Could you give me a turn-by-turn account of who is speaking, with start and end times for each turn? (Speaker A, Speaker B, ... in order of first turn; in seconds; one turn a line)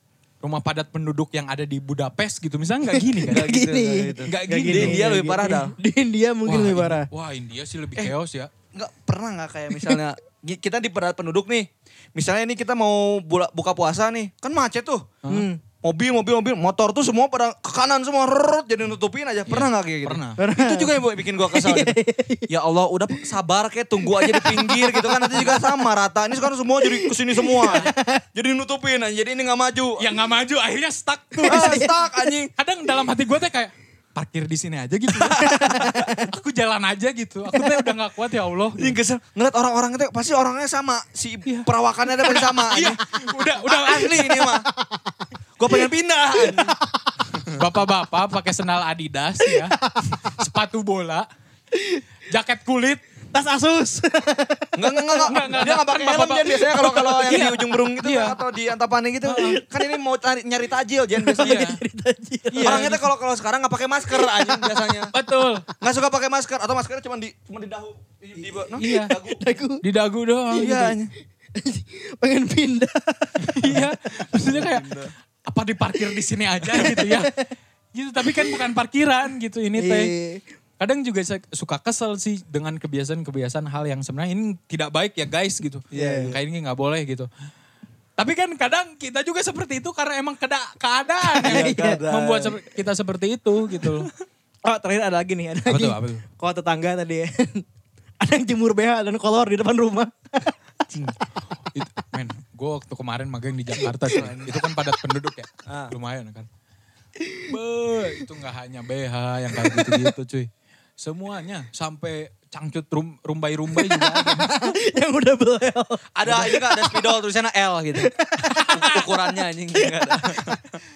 Speaker A: 0.4-3.6
Speaker B: 2.9-7.1
Speaker C: 3.3-5.7
Speaker A: 4.2-5.1
Speaker A: 6.5-8.5
Speaker C: 8.7-15.2
Speaker B: 15.3-15.6
Speaker C: 15.8-22.0
Speaker A: 19.5-20.4
Speaker B: 20.4-22.5
Speaker C: 22.5-30.1
Speaker B: 24.0-25.7
Speaker B: 26.8-28.2
Speaker A: 30.0-31.9
Speaker B: 31.4-32.1
Speaker C: 31.5-32.5
Speaker A: 32.6-39.0
Speaker C: 35.2-36.1
Speaker B: 35.4-36.3
Speaker B: 37.5-37.9
Speaker C: 38.8-44.7
Speaker A: 42.2-44.5
Speaker B: 44.7-45.8
Speaker C: 45.6-46.8
Speaker B: 46.4-46.8
Speaker C: 47.3-47.6
Speaker A: 47.5-51.3
Speaker B: 49.4-50.2
Speaker B: 51.7-52.0
Speaker A: 52.3-53.0
Speaker B: 53.3-55.6
Speaker C: 54.8-61.7
Speaker A: 55.3-58.4
Speaker B: 56.8-57.5
Speaker A: 59.2-59.6
Speaker B: 59.6-59.9
Speaker B: 61.2-62.9
Speaker A: 61.4-61.8
Speaker A: 62.5-63.0
Speaker C: 62.6-65.1
Speaker B: 64.1-65.1
Speaker A: 65.1-65.7
Speaker C: 65.8-69.4
Speaker A: 68.8-69.1
Speaker B: 68.8-69.8
Speaker A: 69.8-71.0
Speaker C: 70.5-71.1
Speaker B: 71.6-73.9
Speaker A: 73.5-74.9
Speaker C: 74.4-75.1
Speaker A: 75.5-77.3
Speaker B: 76.8-77.5
Speaker A: 77.9-80.1
Speaker B: 79.8-80.4
Speaker A: 80.8-87.3
Speaker C: 85.9-86.3
Speaker B: 85.9-86.4
Speaker A: 88.2-94.1
Speaker B: 91.2-92.0
Speaker C: 91.4-92.6
Speaker B: 94.7-97.7
Speaker A: 95.7-96.2
Speaker B: 98.2-100.5
Speaker A: 101.7-106.5
Speaker C: 104.1-104.6
Speaker C: 105.7-105.9
Speaker B: 107.2-107.5
Speaker A: 107.5-114.6
Speaker B: 109.7-110.0
Speaker B: 113.8-117.1
Speaker C: 116.2-118.1
Speaker B: 118.0-119.0
Speaker A: 118.4-119.1
Speaker C: 118.7-120.8
Speaker B: 119.7-120.4